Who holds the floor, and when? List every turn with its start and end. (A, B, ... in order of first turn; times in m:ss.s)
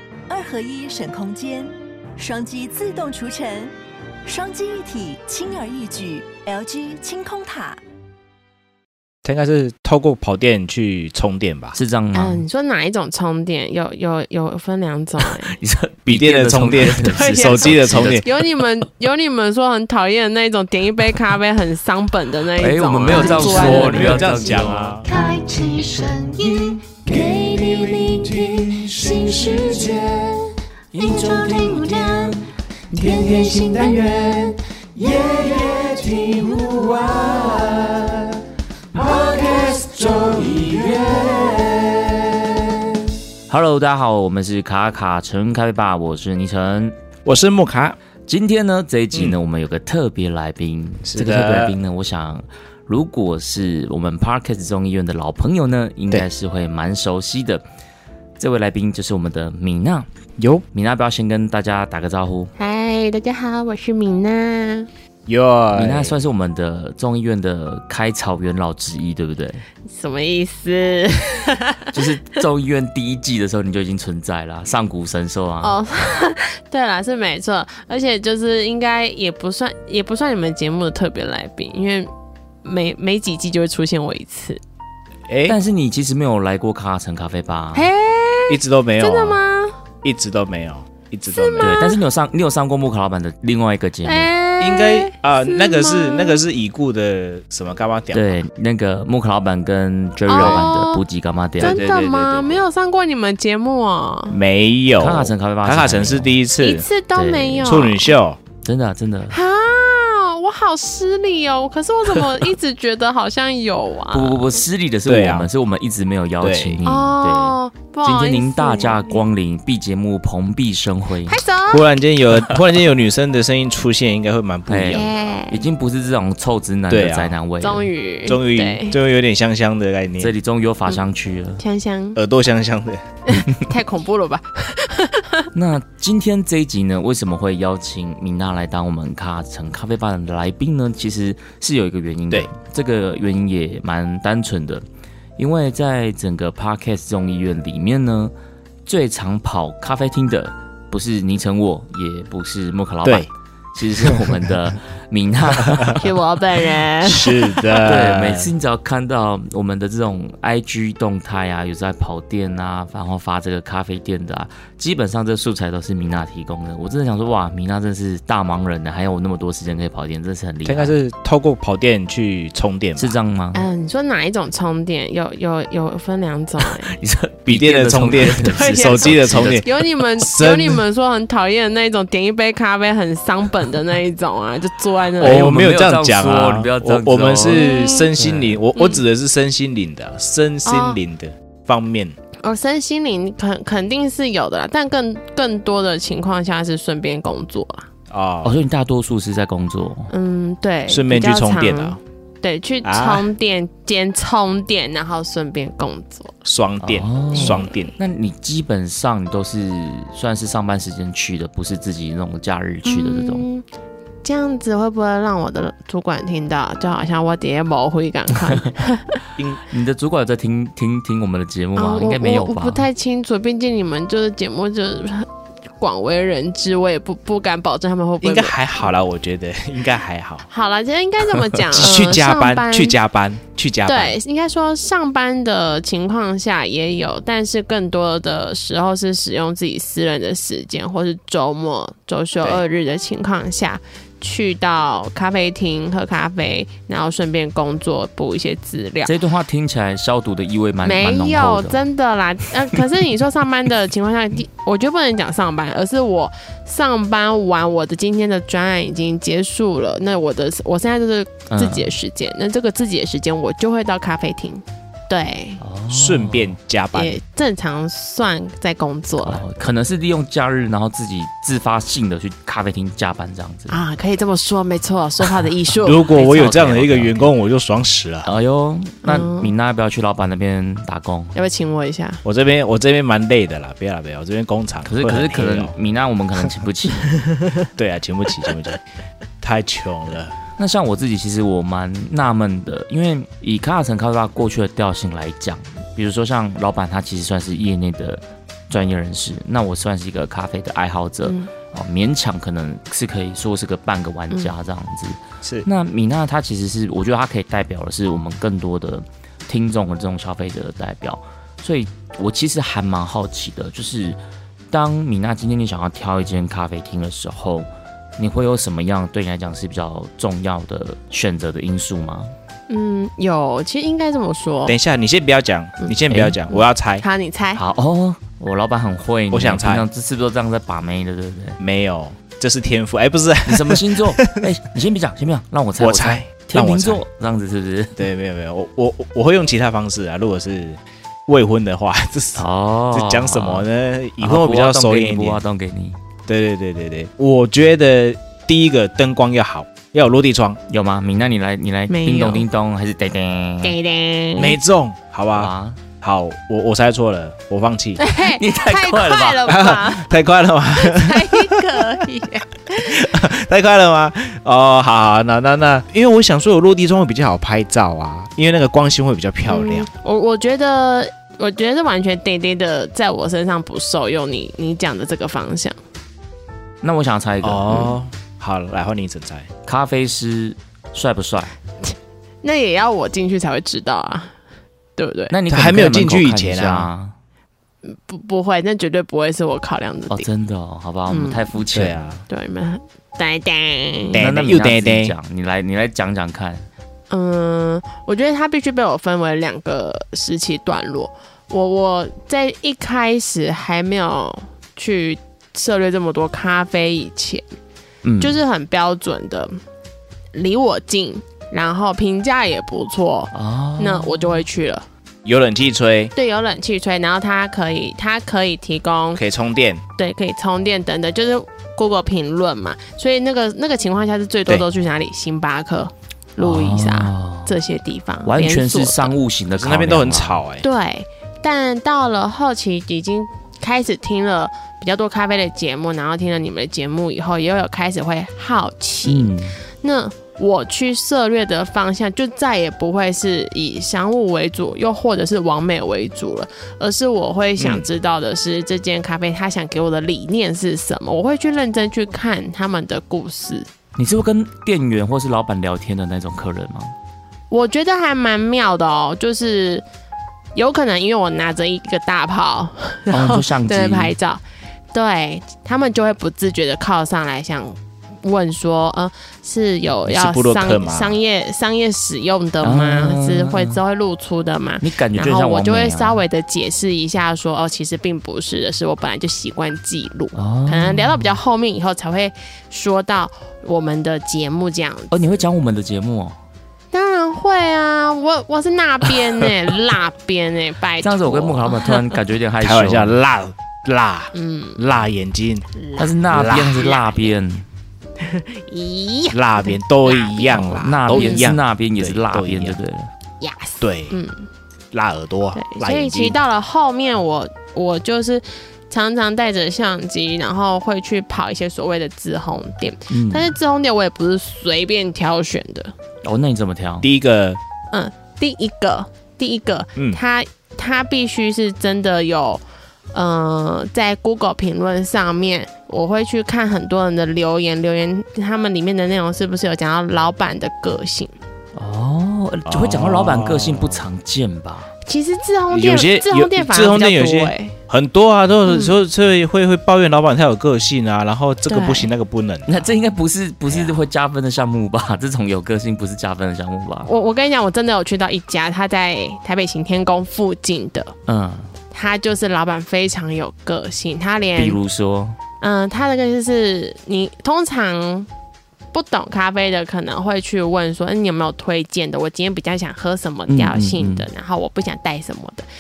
0:00.3-0:03.7 A
0:04.2-0:07.8 A
0:09.2-0:11.8 B
0:11.8-0:12.4 C
0:12.1-0:15.6 D
0:15.3-0:18.5 C
0:16.1-0:18.2 B
0:17.2-0:24.2 D
0:22.6-0:25.0 C
0:23.2-0:25.1 B
0:25.0-0:30.4 E
0:28.4-0:29.6 B
0:30.9-0:37.7 E
0:35.0-0:37.5 B
0:39.0-0:41.4 E
0:39.4-0:41.5 B
0:43.5-0:47.0 C
0:47.2-0:48.0 B
0:48.3-0:57.6 C
0:51.0-0:51.8 B
0:58.4-1:00.1 C
1:00.4-1:00.6 B
1:00.7-1:02.5 C
1:02.6-1:04.9 D
1:05.3-1:06.2 B
1:05.7-1:09.6 C
1:09.8-1:12.1 D
1:11.9-1:15.8 C
1:15.6-1:22.1 D
1:22.6-1:24.6 D
1:25.3-1:25.6 B
1:25.5-1:27.9 C
1:27.7-1:29.8 D
1:28.5-1:29.4 B
1:30.0-1:31.8 B
1:31.3-1:32.0 D
1:31.6-1:34.3 C
1:34.0-1:36.4 D
1:34.6-1:38.4 B
1:38.1-1:41.8 C
1:40.3-1:41.0 D
1:40.3-1:40.6 B
1:41.6-1:42.6 B
1:41.6-1:44.4 D
1:44.3-1:46.9 B
1:45.0-1:46.4 C
1:46.6-1:48.1 D
1:47.1-1:47.9 C
1:47.6-1:48.4 B
1:48.6-1:49.4 C
1:49.3-1:54.6 D
1:54.1-2:01.4 C
1:55.1-1:55.5 B
1:56.4-1:56.8 B
1:56.8-1:59.2 D
2:01.3-2:01.9 D
2:01.7-2:05.2 B
2:04.7-2:07.9 C
2:04.9-2:05.6 D
2:06.9-2:07.4 B
2:07.6-2:09.0 D
2:08.3-2:10.4 B
2:10.2-2:11.6 C
2:11.6-2:12.2 D
2:12.2-2:13.0 B
2:13.3-2:15.5 D
2:15.5-2:24.8 C
2:25.4-2:28.3 C
2:28.9-2:36.1 C
2:33.0-2:33.3 B
2:34.0-2:34.5 B
2:35.6-2:35.9 B
2:36.0-2:37.8 D
2:37.0-2:38.5 B
2:37.8-2:51.0 C
2:50.6-2:53.2 B
2:53.0-2:53.6 C
2:53.5-2:57.0 D
2:56.6-2:59.8 C
2:57.5-3:00.8 B
2:58.5-3:05.4 D
3:05.2-3:08.6 C
3:05.2-3:12.2 B
3:07.5-3:08.1 D
3:08.8-3:09.0 D
3:10.6-3:11.0 D
3:12.4-3:17.9 D
3:18.1-3:18.6 B
3:18.4-3:20.1 C
3:20.1-3:26.4 D
3:20.9-3:22.0 B
3:22.8-3:23.3 B
3:26.4-3:27.9 B
3:26.8-3:33.4 C
3:27.3-3:27.9 D
3:32.8-3:33.6 D
3:34.2-3:39.2 D
3:39.7-3:42.9 C
3:41.8-3:48.6 D
3:48.2-3:50.5 B
3:50.5-3:53.0 D
3:51.7-3:54.2 B
3:53.9-4:09.1 D
4:09.0-4:11.8 C
4:10.8-4:25.6 D
4:21.5-4:21.9 C
4:25.6-4:26.6 C
4:25.9-4:27.2 B
4:26.9-4:29.4 D
4:29.2-4:33.8 C
4:33.7-4:36.5 D
4:35.8-4:38.3 B
4:36.1-4:37.3 C
4:38.3-4:41.4 C
4:39.0-4:39.5 D
4:41.3-4:42.2 D
4:42.2-4:45.7 B
4:44.8-4:47.1 C
4:47.8-4:48.8 B
4:49.4-4:50.4 B
4:50.6-5:14.2 C
5:01.2-5:01.5 D
5:05.4-5:05.7 B
5:14.7-5:22.3 C
5:22.7-5:24.8 D
5:24.7-5:27.0 B
5:26.1-5:26.4 C
5:26.5-5:27.6 D
5:27.6-5:31.6 C
5:29.3-5:29.9 B
5:31.6-5:34.4 B
5:33.5-5:38.0 C
5:35.8-5:37.0 B
5:38.0-5:45.4 B
5:42.4-5:43.7 C
5:44.2-5:46.0 C
5:46.3-5:50.6 B
5:50.7-5:53.8 C
5:51.9-5:52.5 D
5:53.6-5:54.6 D
5:54.4-5:58.0 B
5:55.3-5:55.8 C
5:58.0-6:00.1 D
5:58.2-5:59.6 C
5:59.5-6:01.8 B
6:00.8-6:03.0 D
6:02.8-6:09.9 B
6:09.5-6:15.8 D
6:16.8-6:18.0 C
6:17.4-6:19.5 B
6:19.7-6:21.5 C
6:21.8-6:24.4 D
6:25.0-6:25.3 D
6:25.3-6:27.2 C
6:25.5-6:26.9 B
6:27.8-6:30.3 D
6:30.1-6:32.0 C
6:31.1-6:31.5 D
6:31.7-6:32.2 B
6:32.3-6:34.2 D
6:34.1-6:36.7 C
6:34.2-6:35.1 B
6:37.1-6:47.4 D
6:48.0-6:48.4 C
6:48.2-6:49.6 D
6:50.3-6:54.9 D
6:53.3-6:54.4 C
6:55.2-6:56.1 B
6:56.2-6:59.2 D
6:59.2-6:59.8 B
7:00.0-7:09.1 D
7:06.4-7:07.6 C
7:08.2-7:10.4 C
7:09.6-7:10.6 B
7:10.6-7:33.7 D
7:19.1-7:19.6 C
7:27.6-7:27.8 B
7:34.0-7:37.0 C
7:37.5-7:39.8 D
7:40.6-7:44.4 D
7:43.1-7:44.2 C
7:44.9-8:05.4 D
7:50.1-7:51.2 B
7:52.6-7:53.8 C
7:54.8-7:56.2 C
8:00.3-8:01.4 C
8:05.1-8:06.4 C
8:06.9-8:12.2 D
8:11.0-8:13.2 C
8:12.6-8:15.7 B
8:14.3-8:14.9 D
8:15.8-8:17.3 D
8:16.0-8:17.7 C
8:16.3-8:16.8 B
8:18.2-8:21.5 D
8:19.3-8:22.8 B
8:20.8-8:23.1 C
8:23.4-8:24.5 D
8:23.8-8:24.2 B
8:24.9-8:26.4 B
8:25.6-8:35.9 D
8:33.1-8:33.5 C
8:36.2-8:37.1 C
8:37.0-8:37.6 B
8:37.9-8:42.6 D
8:43.1-8:51.3 D
8:51.8-8:54.9 C
8:52.7-8:54.1 B
8:55.1-8:57.8 D
8:55.7-9:02.9 B
8:58.7-8:59.0 D
9:01.7-9:02.1 D
9:02.7-9:07.1 C
9:03.7-9:04.0 B
9:07.1-9:11.2 D
9:11.3-9:11.7 C
9:11.9-9:14.8 D
9:14.6-9:15.4 C
9:15.6-9:18.3 D
9:18.9-9:25.7 D
9:23.5-9:24.3 C